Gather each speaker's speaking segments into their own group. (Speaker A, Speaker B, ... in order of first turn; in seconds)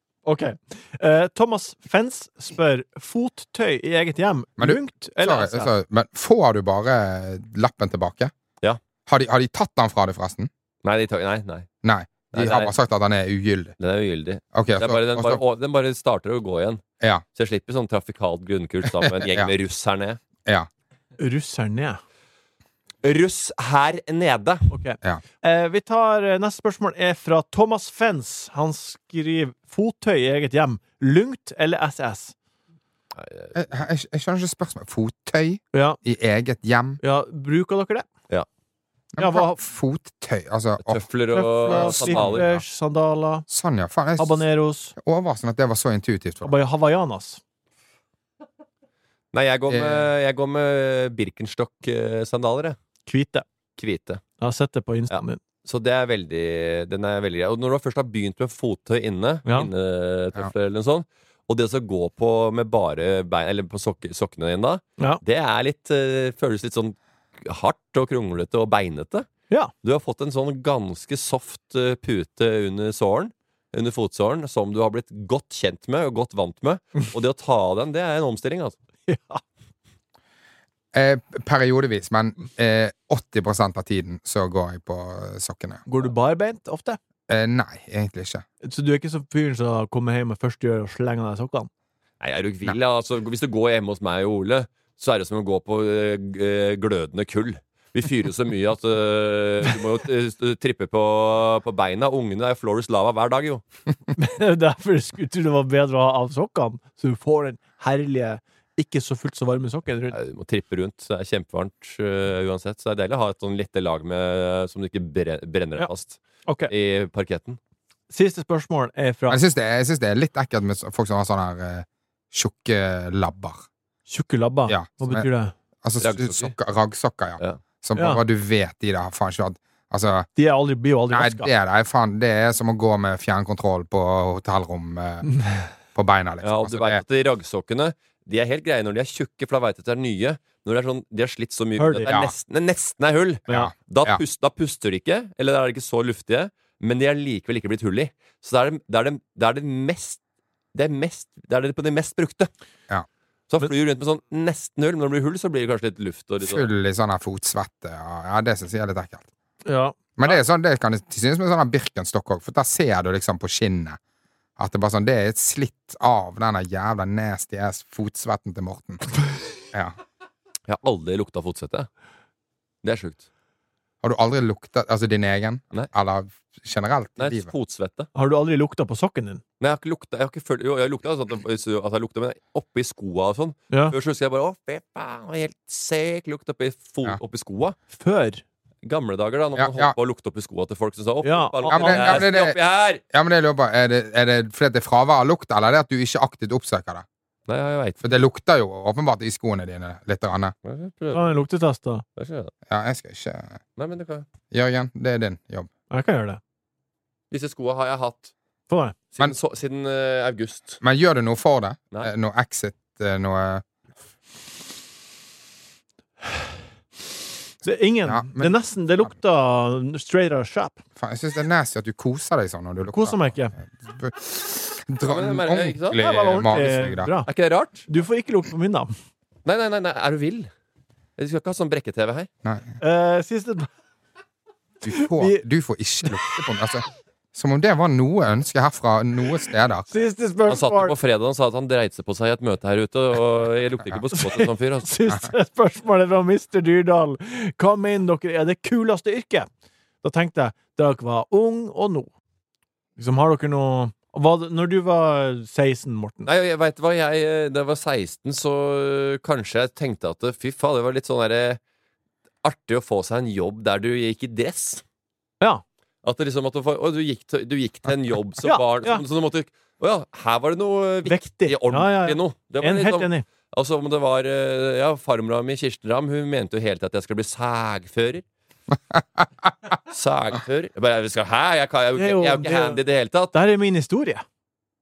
Speaker A: 0.3-5.7, 21.2-22.0, 24.7-32.4, 35.7-36.0, 37.0-38.1, 39.2-39.6, 41.3-43.4, 44.2-44.9, 46.4-47.4, 53.1-53.4, 54.4-55.4, 79.1-79.4, 85.9-87.0, 88.6-91.7, 104.1-110.2, 118.1-119.4, 124.1-125.5, 128.0-128.2, 130.4-131.5, 135.3-135.7, 141.8-142.1, 159.7-159.9, 178.1-179.4, 183.7-183.9, 187.9-188.4, 191.2-192.3, 201.1-202.1, 205.9-206.4, 208.7-209.0, 217.6-220.8, 222.9-223.5, 226.0-227.3, 227.9-228.9, 232.8-233.7, 234.9-235.4, 239.9-240.9, 244.1-249.5, 250.0-252.1, 253.0-256.3, 268.4-269.0, 271.1-273.3, 281.9-282.8, 283.3-284.2
Speaker B: 4.6-8.3, 9.1-10.5, 11.8-13.7, 14.5-15.4, 19.0-19.5, 33.5-37.0, 39.1-41.0, 41.6-42.6, 43.5-44.4, 45.0-46.6, 49.7-50.1, 80.9-85.8, 87.3-88.4, 119.3-123.7, 124.7-125.3, 125.8-130.3, 131.1-135.3, 135.9-137.0, 142.1-142.3, 143.5-144.2, 156.4-159.3, 160.2-164.0, 164.6-169.1, 174.0-177.5, 189.6-189.9, 191.7-192.6, 193.1-197.1, 198.0-200.5, 202.7-203.6, 204.5-205.7, 210.8-213.6, 218.1-218.5, 221.0-227.1, 232.4-232.8, 234.8-239.9
Speaker C: 10.8-11.7, 12.3-12.7, 13.8-16.8, 17.4-20.2, 23.0-24.7, 33.1-33.5, 40.8-42.5, 49.3-52.8, 53.8-54.2, 55.1-69.3, 69.8-78.7, 92.2-103.6, 110.1-117.6, 126.0-126.5, 136.4-150.2, 150.7-152.5, 153.5-156.7, 170.7-171.9, 172.8-173.2, 177.2-178.1, 179.6-187.8, 188.8-193.0, 197.5-198.1, 200.6-201.4, 202.2-202.5, 203.8-204.3, 207.3-208.3, 209.1-210.8, 225.0-226.6, 227.3-227.8, 229.4-230.5, 231.2-232.3, 240.5-244.9, 256.2-261.6, 262.4-264.8, 266.0-278.2, 279.9-283.4